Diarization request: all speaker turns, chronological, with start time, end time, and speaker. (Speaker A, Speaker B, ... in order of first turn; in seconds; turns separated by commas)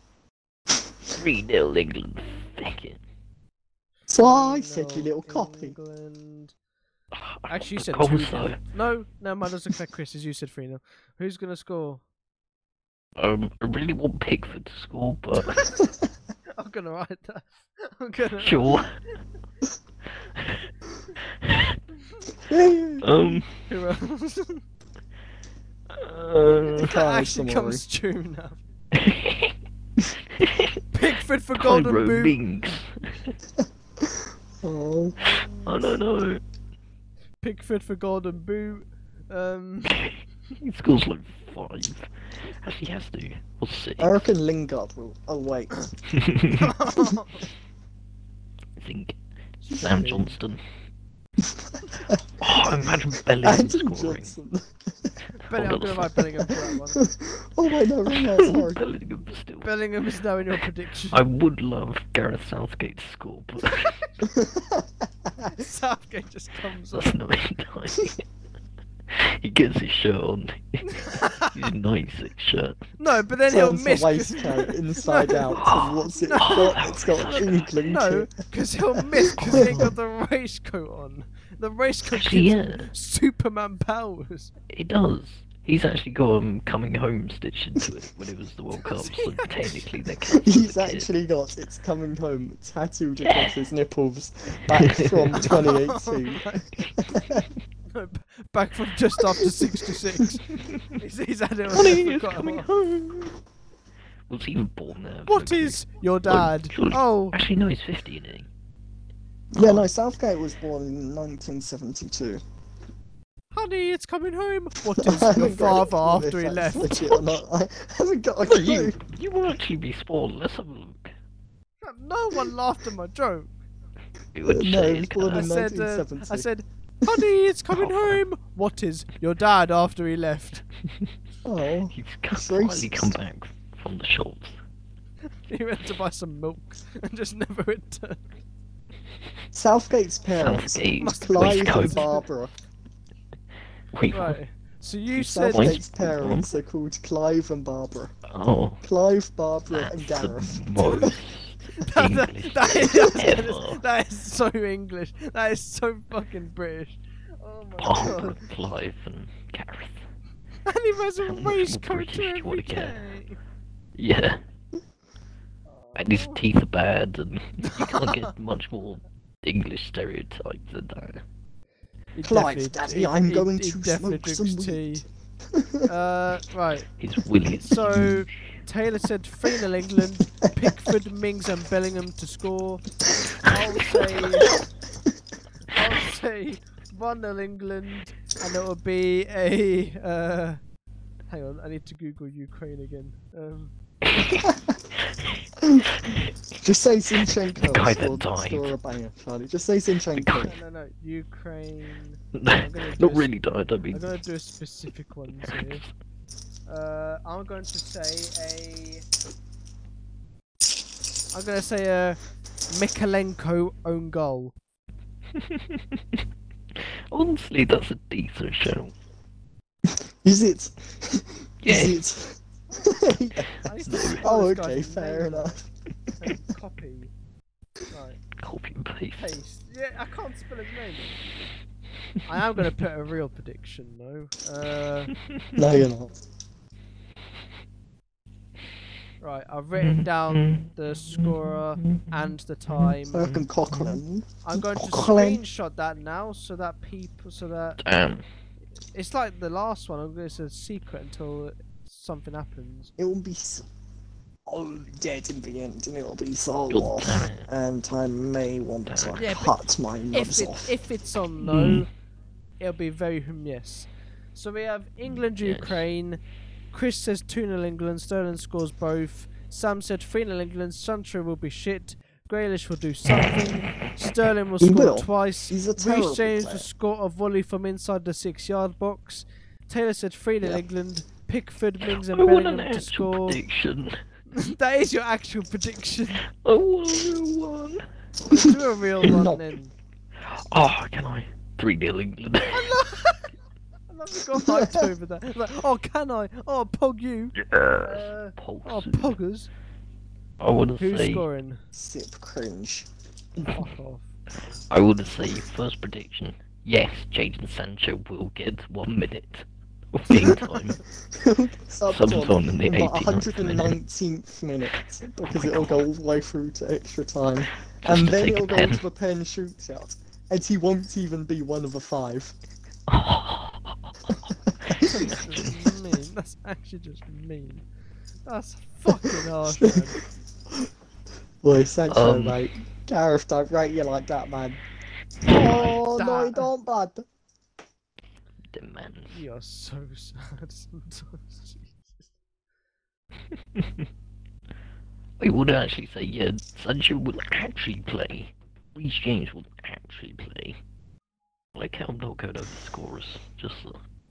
Speaker A: 1.1-3.0, Speaker B: 4.1-5.8, Speaker C: 4.1-6.5, Speaker A: 7.1-8.6, Speaker C: 7.5-12.0, Speaker A: 13.2-15.7, Speaker C: 16.5-18.8, Speaker A: 18.4-19.0, Speaker A: 21.4-21.8, Speaker B: 22.5-23.1, Speaker A: 23.0-23.5, Speaker C: 23.7-24.6, Speaker A: 25.9-26.9, Speaker B: 26.8-27.8, Speaker C: 26.8-28.6, Speaker A: 28.9-29.5, Speaker A: 30.4-30.8, Speaker C: 30.9-32.4, Speaker A: 31.6-33.3, Speaker B: 34.0-35.2, Speaker A: 35.6-36.4, Speaker C: 37.4-40.0, Speaker A: 40.0-44.1, Speaker B: 44.0-45.9, Speaker A: 46.1-46.7, Speaker C: 46.5-47.4, Speaker A: 48.8-49.2, Speaker C: 49.6-50.4, Speaker A: 49.7-50.6, Speaker B: 51.4-52.8, Speaker A: 52.4-54.3, Speaker B: 53.4-55.1, Speaker C: 55.4-57.0, Speaker A: 55.5-56.3, Speaker B: 56.5-58.8, Speaker A: 58.1-59.7, Speaker C: 59.6-61.2, Speaker A: 61.1-64.0, Speaker C: 63.6-64.1, Speaker B: 64.2-65.5, Speaker C: 65.4-67.2, Speaker A: 66.9-68.2, Speaker A: 69.1-72.9, Speaker C: 70.8-71.7, Speaker C: 73.0-75.6, Speaker B: 73.5-78.3, Speaker A: 75.5-78.1, Speaker C: 76.1-84.5, Speaker B: 79.3-79.9, Speaker A: 79.3-80.0, Speaker A: 82.1-82.9, Speaker A: 84.7-91.1, Speaker C: 88.8-90.0, Speaker B: 90.4-97.5, Speaker A: 93.2-93.5, Speaker A: 94.7-95.7, Speaker C: 95.3-96.7, Speaker C: 97.9-100.4, Speaker A: 100.5-100.9, Speaker C: 101.0-102.7, Speaker A: 101.7-103.4, Speaker A: 104.3-108.5, Speaker C: 105.3-107.4, Speaker B: 109.5-112.4, Speaker A: 109.5-109.9, Speaker C: 113.5-116.9, Speaker B: 115.0-119.0, Speaker A: 116.9-117.4, Speaker A: 118.4-121.1, Speaker C: 121.8-123.5, Speaker A: 124.3-125.5, Speaker B: 124.4-126.5, Speaker C: 125.3-130.6, Speaker A: 127.7-128.2, Speaker B: 131.4-133.2, Speaker A: 131.9-134.6, Speaker C: 135.5-138.2, Speaker B: 139.5-142.5, Speaker A: 140.4-142.1, Speaker C: 141.0-142.2, Speaker A: 143.9-144.4, Speaker C: 144.1-145.8, Speaker B: 145.1-148.1, Speaker A: 145.2-146.5, Speaker A: 148.3-148.8, Speaker B: 148.8-151.1, Speaker A: 149.7-153.8, Speaker C: 151.8-158.4, Speaker A: 157.8-160.0, Speaker C: 160.7-163.4, Speaker A: 161.2-163.0, Speaker A: 164.0-164.4, Speaker C: 165.7-166.4, Speaker A: 165.9-171.2, Speaker C: 167.6-168.3, Speaker C: 172.1-175.0, Speaker B: 172.2-175.9, Speaker C: 175.9-176.8, Speaker A: 177.0-178.2, Speaker C: 177.6-182.8, Speaker B: 180.7-181.0, Speaker C: 183.4-184.5, Speaker A: 183.5-184.5, Speaker C: 185.7-190.6, Speaker C: 191.3-193.7, Speaker A: 194.1-194.4, Speaker B: 194.3-194.7, Speaker B: 195.6-200.5, Speaker A: 197.6-198.7, Speaker C: 200.4-203.3, Speaker A: 202.3-204.1, Speaker C: 203.9-205.8, Speaker A: 205.4-205.9, Speaker C: 206.7-209.0, Speaker C: 211.3-214.5, Speaker A: 215.3-216.2, Speaker A: 216.7-218.9, Speaker B: 219.9-225.7, Speaker A: 221.6-222.0, Speaker C: 223.6-225.6, Speaker A: 223.8-224.3, Speaker C: 226.2-227.1, Speaker C: 227.9-228.2, Speaker A: 228.4-229.3, Speaker C: 229.2-231.1, Speaker C: 232.3-235.1, Speaker B: 235.6-236.1, Speaker C: 239.2-243.3, Speaker A: 239.8-244.0, Speaker B: 243.1-245.4, Speaker C: 244.4-247.8, Speaker A: 247.8-248.2, Speaker C: 248.9-252.9, Speaker B: 253.0-253.7, Speaker B: 254.5-260.7, Speaker A: 256.7-257.4, Speaker A: 258.9-259.2, Speaker C: 259.1-259.5, Speaker C: 260.1-261.9, Speaker A: 261.4-261.9, Speaker C: 262.6-266.2, Speaker A: 265.2-265.8, Speaker C: 266.7-283.4, Speaker B: 274.6-276.7, Speaker A: 281.9-284.0, Speaker C: 284.3-286.2, Speaker A: 286.3-287.8, Speaker B: 288.3-289.4, Speaker C: 288.3-289.7, Speaker A: 290.2-292.7, Speaker C: 292.5-293.3, Speaker C: 293.9-299.5, Speaker B: 294.4-294.9, Speaker A: 297.4-299.1, Speaker A: 300.4-301.2, Speaker C: 300.8-301.6, Speaker B: 301.7-302.9, Speaker C: 303.5-304.1, Speaker A: 304.7-310.8, Speaker B: 310.1-310.4, Speaker B: 311.1-322.3, Speaker A: 311.9-313.8, Speaker A: 315.3-315.8, Speaker A: 317.8-318.8, Speaker A: 322.9-325.6, Speaker B: 324.7-325.0, Speaker C: 324.8-327.6, Speaker C: 328.2-330.0, Speaker B: 328.9-330.0, Speaker B: 331.4-334.6, Speaker A: 331.9-332.4, Speaker C: 335.3-336.5, Speaker B: 335.3-337.0, Speaker A: 338.5-339.2, Speaker C: 339.1-342.1, Speaker A: 343.5-343.9, Speaker A: 345.2-350.6, Speaker A: 351.5-353.8